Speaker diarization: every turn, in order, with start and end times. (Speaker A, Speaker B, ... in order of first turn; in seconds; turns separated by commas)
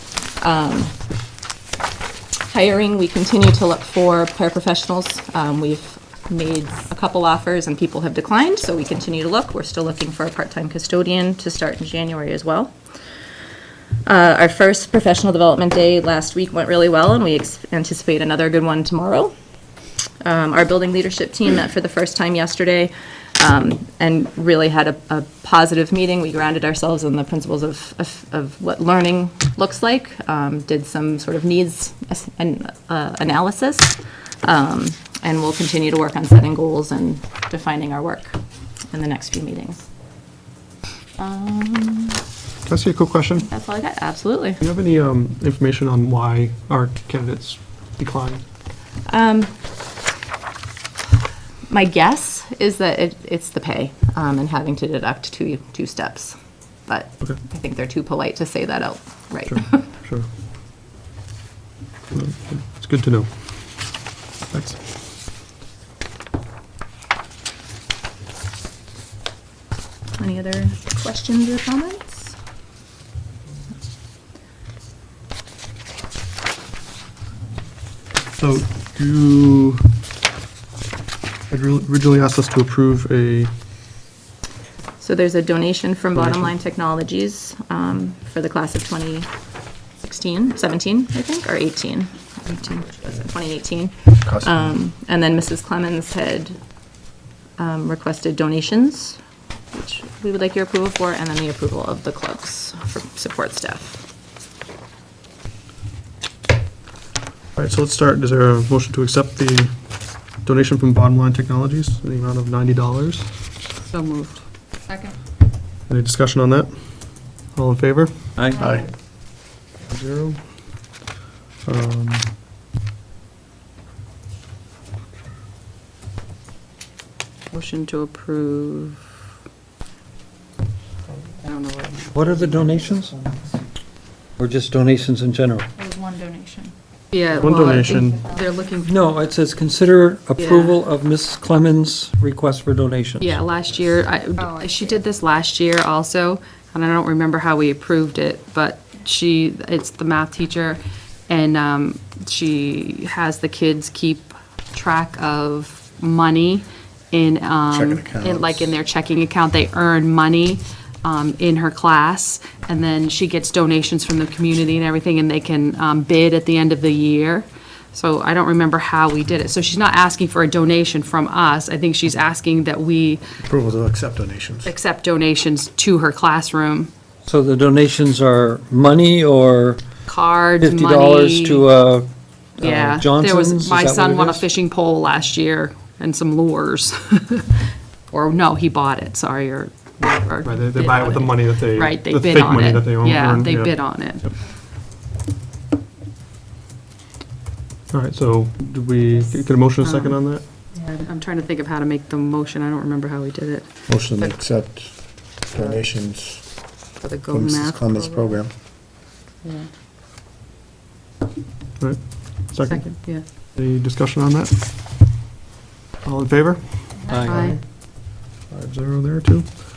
Speaker A: 0.4-0.9, Speaker A: 2.5-12.7, Speaker A: 14.0-19.3, Speaker A: 20.2-38.4, Speaker A: 38.9-39.8, Speaker A: 41.2-42.2, Speaker B: 42.6-43.5, Speaker A: 43.5-44.6, Speaker B: 44.6-48.4, Speaker A: 49.1-49.5, Speaker A: 51.7-59.9, Speaker B: 59.5-60.3, Speaker B: 62.1-63.3, Speaker B: 64.5-64.8, Speaker A: 70.2-72.3, Speaker B: 78.3-79.9, Speaker B: 81.5-83.5, Speaker A: 85.0-89.3, Speaker A: 90.0-96.6, Speaker A: 97.6-99.2, Speaker A: 99.7-104.0, Speaker B: 107.5-113.3, Speaker C: 113.9-115.1, Speaker B: 115.9-118.3, Speaker D: 118.4-118.7, Speaker E: 118.5-118.8, Speaker F: 118.6-118.8, Speaker B: 119.9-120.4, Speaker B: 121.7-122.3, Speaker C: 127.5-129.0, Speaker C: 131.4-132.1, Speaker D: 132.1-133.5, Speaker D: 134.4-135.7, Speaker E: 135.8-136.7, Speaker C: 137.1-138.9, Speaker B: 137.4-138.2, Speaker E: 137.7-138.7, Speaker D: 138.8-143.4, Speaker C: 140.4-140.8, Speaker C: 143.2-173.2, Speaker E: 144.4-144.7, Speaker F: 157.7-158.7, Speaker F: 173.4-174.6, Speaker C: 174.6-176.9, Speaker D: 177.2-180.0, Speaker C: 180.1-181.7, Speaker D: 180.6-184.4, Speaker C: 182.6-194.4, Speaker B: 190.4-194.3, Speaker B: 197.9-200.4, Speaker C: 199.8-204.4, Speaker F: 203.9-206.6, Speaker C: 204.9-205.8, Speaker C: 207.0-208.6, Speaker F: 207.3-208.5, Speaker C: 209.4-209.7, Speaker B: 211.8-212.9, Speaker C: 212.7-213.2, Speaker B: 213.5-214.5, Speaker B: 216.0-217.5, Speaker D: 217.1-217.5, Speaker C: 217.2-217.6, Speaker B: 218.5-219.5